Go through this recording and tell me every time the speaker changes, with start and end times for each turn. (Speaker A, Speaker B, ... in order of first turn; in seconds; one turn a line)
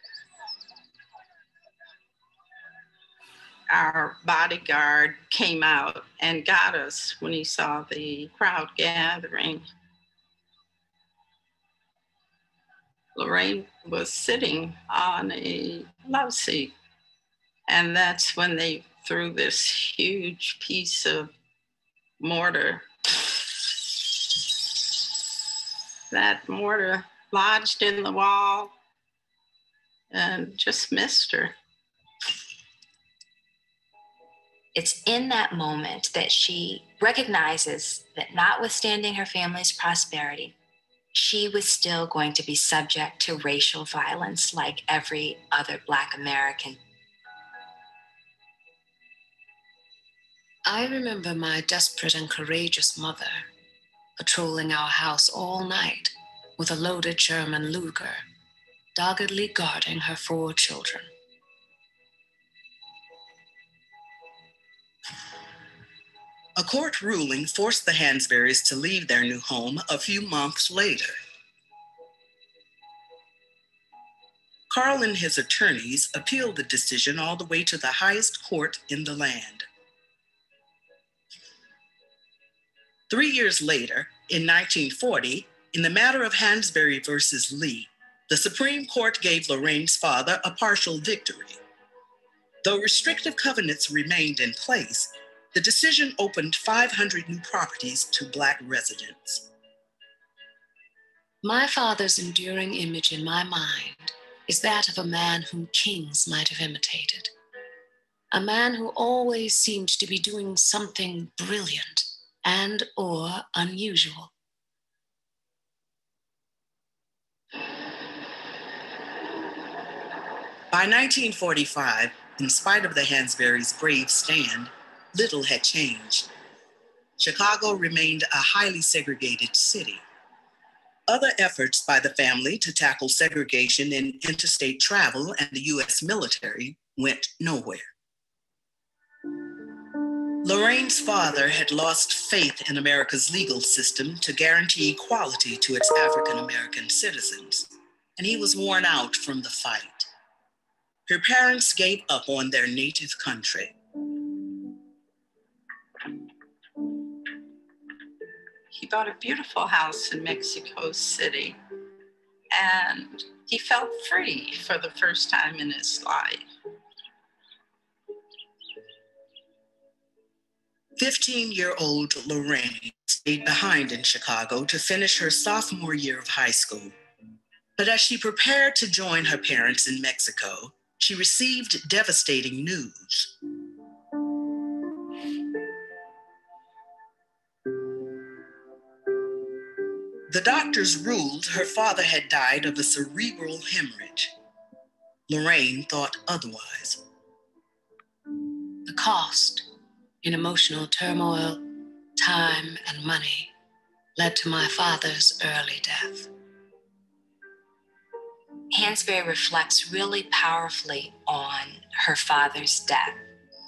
Speaker A: 3.7-9.6
Speaker A: 13.1-16.7
Speaker A: 17.7-21.3
Speaker A: 22.2-22.9
Speaker A: 26.1-28.7
Speaker A: 30.1-31.5
Speaker B: 34.7-40.5
Speaker B: 41.1-46.8
Speaker C: 50.6-53.5
Speaker C: 54.2-58.2
Speaker C: 58.9-61.1
Speaker D: 66.5-71.2
Speaker D: 74.7-79.7
Speaker D: 83.1-91.6
Speaker D: 92.6-99.5
Speaker C: 101.4-107.3
Speaker C: 108.3-114.3
Speaker D: 120.7-126.3
Speaker D: 127.2-130.0
Speaker D: 131.1-137.9
Speaker D: 140.4-150.1
Speaker D: 151.1-153.8
Speaker A: 158.7-161.6
Speaker A: 162.5-166.4
Speaker D: 170.9-176.9
Speaker D: 177.8-183.3
Speaker D: 190.3-194.3
Speaker D: 195.3-197.0
Speaker C: 198.8-199.7
Speaker C: 200.2-201.6
Speaker C: 202.2-203.5
Speaker C: 204.2-206.3
Speaker B: 208.7-213.2